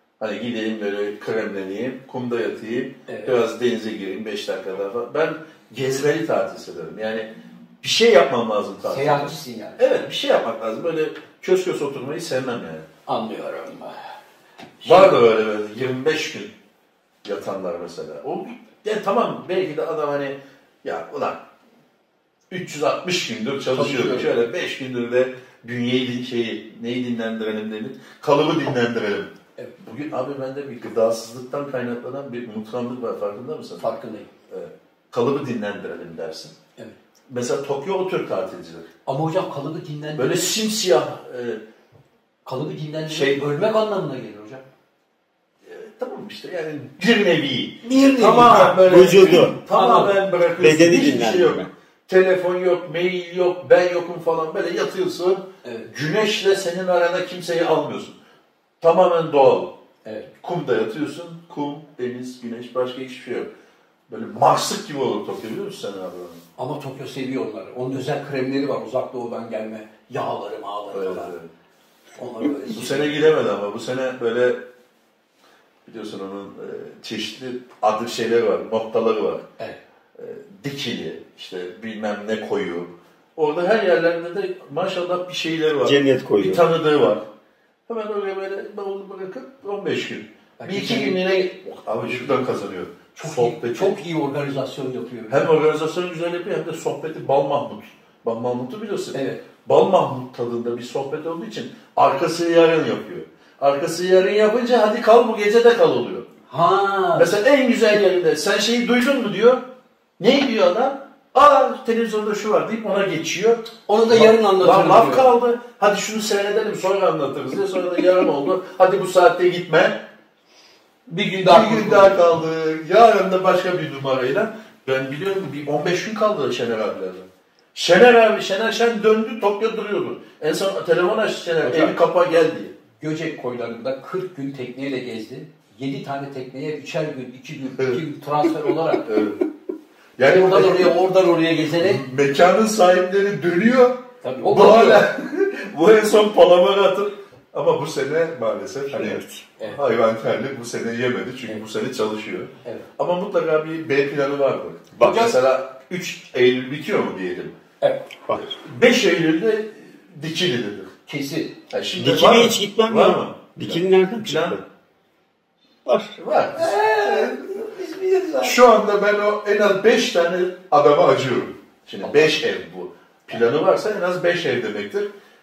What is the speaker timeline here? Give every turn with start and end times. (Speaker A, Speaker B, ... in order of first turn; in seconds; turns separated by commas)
Speaker A: 0.2-7.3, Speaker B: 3.1-3.4, Speaker A: 7.8-12.9, Speaker B: 8.9-9.8, Speaker B: 13.1-14.0, Speaker B: 14.8-15.1, Speaker A: 14.8-16.5, Speaker A: 17.2-21.4, Speaker A: 22.5-33.9, Speaker B: 23.7-24.3, Speaker B: 33.8-34.3, Speaker A: 34.5-36.5, Speaker A: 37.3-38.9, Speaker B: 39.1-40.5, Speaker A: 40.2-41.6, Speaker B: 42.5-44.6, Speaker A: 43.1-43.4, Speaker A: 45.6-58.2, Speaker B: 47.8-50.2, Speaker C: 48.7-49.5, Speaker C: 50.6-51.7, Speaker A: 58.8-59.8, Speaker A: 60.4-63.5, Speaker A: 64.1-66.4, Speaker B: 66.6-71.3, Speaker A: 70.9-71.5, Speaker B: 72.2-73.2, Speaker A: 72.7-74.6, Speaker A: 75.8-79.5, Speaker A: 80.2-87.2, Speaker C: 85.8-86.6, Speaker A: 87.9-94.0, Speaker B: 90.6-91.4, Speaker B: 92.1-92.3, Speaker B: 93.2-95.5, Speaker A: 95.3-106.3, Speaker B: 99.1-99.4, Speaker B: 106.5-107.3, Speaker A: 107.2-109.6, Speaker A: 110.2-120.0, Speaker B: 113.9-115.3, Speaker B: 121.1-122.3, Speaker A: 121.5-132.7, Speaker B: 131.6-131.9, Speaker B: 133.0-139.1, Speaker A: 139.0-139.4, Speaker A: 140.2-141.0, Speaker B: 140.2-142.0, Speaker A: 141.8-157.6, Speaker B: 144.2-145.1, Speaker C: 155.0-155.3, Speaker B: 155.0-155.3, Speaker A: 158.4-160.9, Speaker B: 161.1-161.5, Speaker A: 161.7-164.6, Speaker C: 162.0-164.6, Speaker C: 165.9-166.2, Speaker A: 166.2-167.5, Speaker B: 166.6-168.6, Speaker A: 168.4-175.1, Speaker B: 172.0-172.3